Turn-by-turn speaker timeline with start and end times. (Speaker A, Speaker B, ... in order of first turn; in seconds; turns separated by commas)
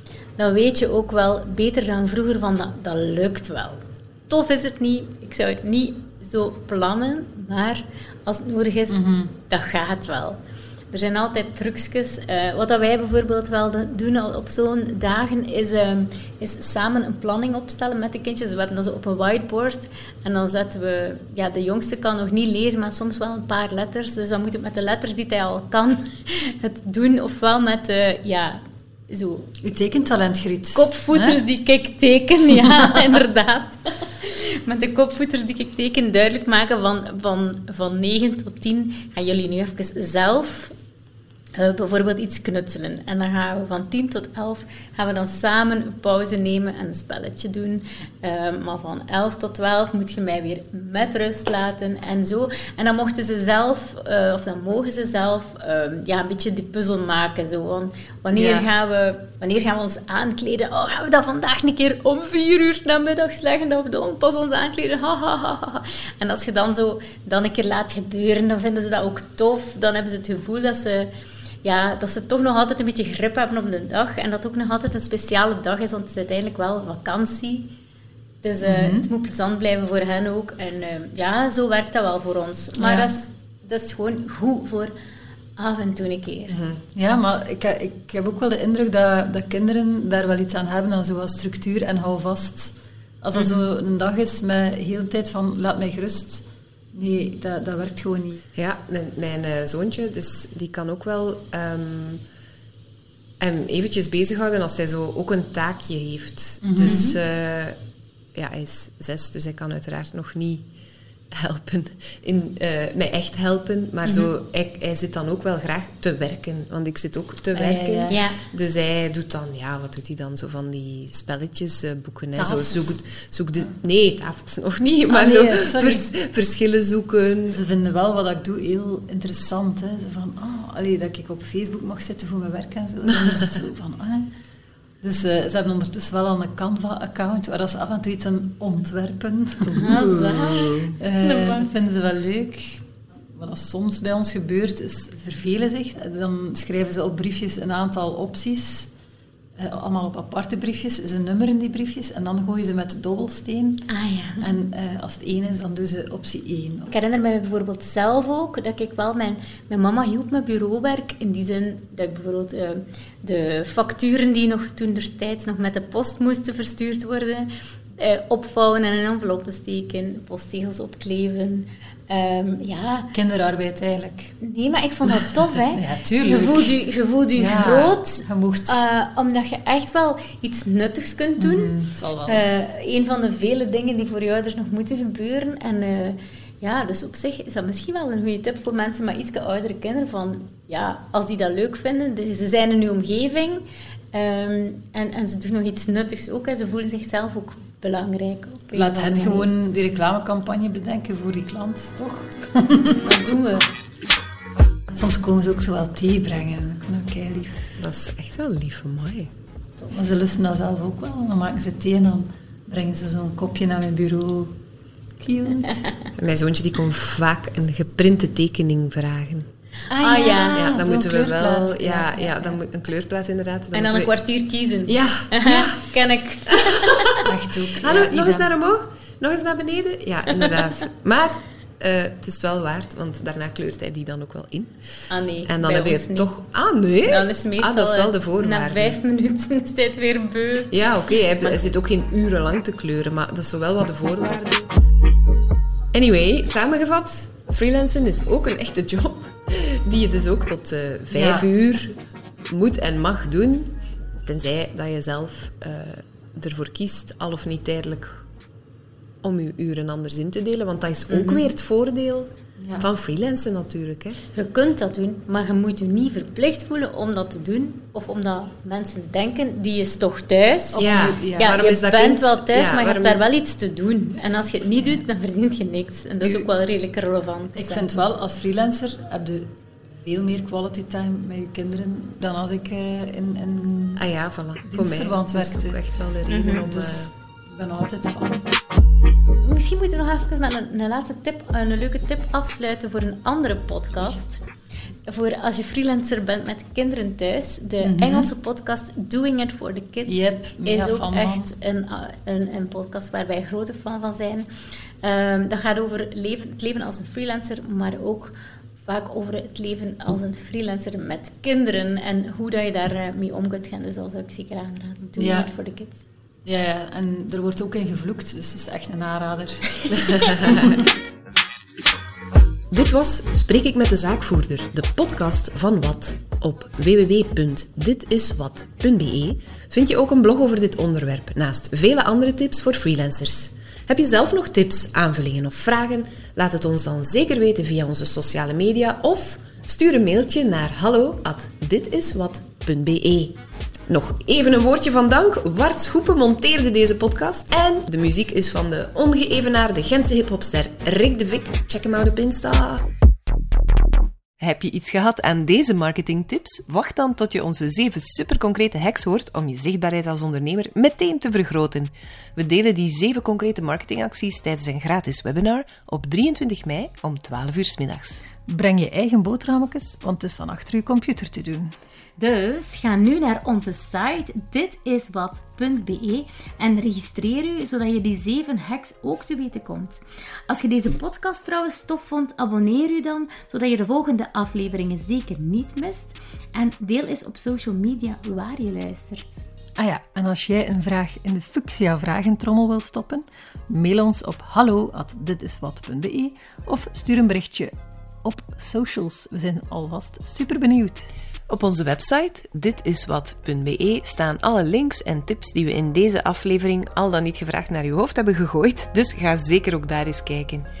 Speaker A: 0.4-10.4, Speaker B: 8.9-9.3, Speaker A: 10.9-29.5, Speaker B: 29.6-31.4, Speaker A: 30.7-40.7, Speaker B: 32.5-33.0, Speaker A: 41.5-71.1, Speaker B: 58.3-58.7, Speaker A: 71.6-77.7, Speaker A: 78.4-84.9, Speaker B: 78.6-79.1, Speaker B: 82.8-83.1, Speaker A: 85.6-86.6, Speaker C: 86.5-86.8, Speaker B: 86.9-98.4, Speaker C: 98.5-102.2, Speaker C: 103.4-107.8, Speaker B: 106.6-107.2, Speaker C: 108.3-110.6, Speaker C: 111.3-127.6, Speaker A: 114.0-114.3, Speaker B: 117.5-118.2, Speaker A: 118.1-118.4, Speaker B: 122.3-123.0, Speaker B: 125.1-126.1, Speaker B: 127.5-134.3, Speaker B: 135.0-148.9, Speaker C: 139.7-140.9, Speaker A: 139.7-141.8, Speaker B: 149.6-153.9, Speaker A: 153.9-154.5, Speaker B: 154.4-156.9, Speaker A: 156.9-173.1, Speaker B: 173.1-174.3, Speaker A: 174.4-181.7, Speaker B: 175.7-176.7, Speaker B: 177.3-178.9, Speaker B: 181.4-182.5, Speaker A: 182.2-199.5, Speaker B: 198.7-203.1, Speaker A: 203.0-203.7, Speaker B: 204.9-207.8, Speaker C: 207.8-209.3, Speaker B: 209.8-214.5, Speaker B: 215.2-215.9, Speaker C: 216.2-219.5, Speaker B: 219.9-222.6, Speaker A: 220.0-220.7, Speaker C: 220.5-224.1, Speaker A: 223.7-227.3, Speaker C: 224.9-225.8, Speaker C: 226.5-226.8, Speaker B: 227.2-228.5, Speaker C: 227.8-234.7, Speaker A: 235.1-236.3, Speaker C: 235.4-239.0, Speaker A: 237.0-240.7, Speaker C: 240.7-244.7, Speaker A: 241.4-241.7, Speaker C: 245.9-251.9, Speaker B: 251.1-251.5, Speaker C: 252.5-253.7, Speaker C: 254.2-258.2, Speaker C: 259.2-264.2, Speaker A: 261.1-261.5, Speaker B: 262.6-262.9, Speaker A: 264.3-277.9, Speaker B: 270.7-271.6, Speaker C: 270.8-273.2, Speaker B: 276.2-276.5, Speaker B: 277.5-284.1, Speaker C: 284.0-287.1, Speaker B: 284.6-285.8, Speaker A: 286.3-286.6, Speaker B: 286.6-288.5, Speaker A: 289.4-294.4, Speaker A: 295.1-304.5, Speaker B: 297.8-298.3, Speaker B: 300.0-301.5, Speaker A: 305.0-316.0, Speaker B: 315.2-315.5, Speaker B: 316.4-320.9, Speaker C: 320.4-320.8, Speaker C: 322.7-343.3, Speaker C: 343.9-352.8, Speaker C: 354.4-368.2, Speaker B: 368.4-371.7, Speaker A: 372.2-389.4, Speaker B: 389.8-401.1, Speaker C: 401.5-410.7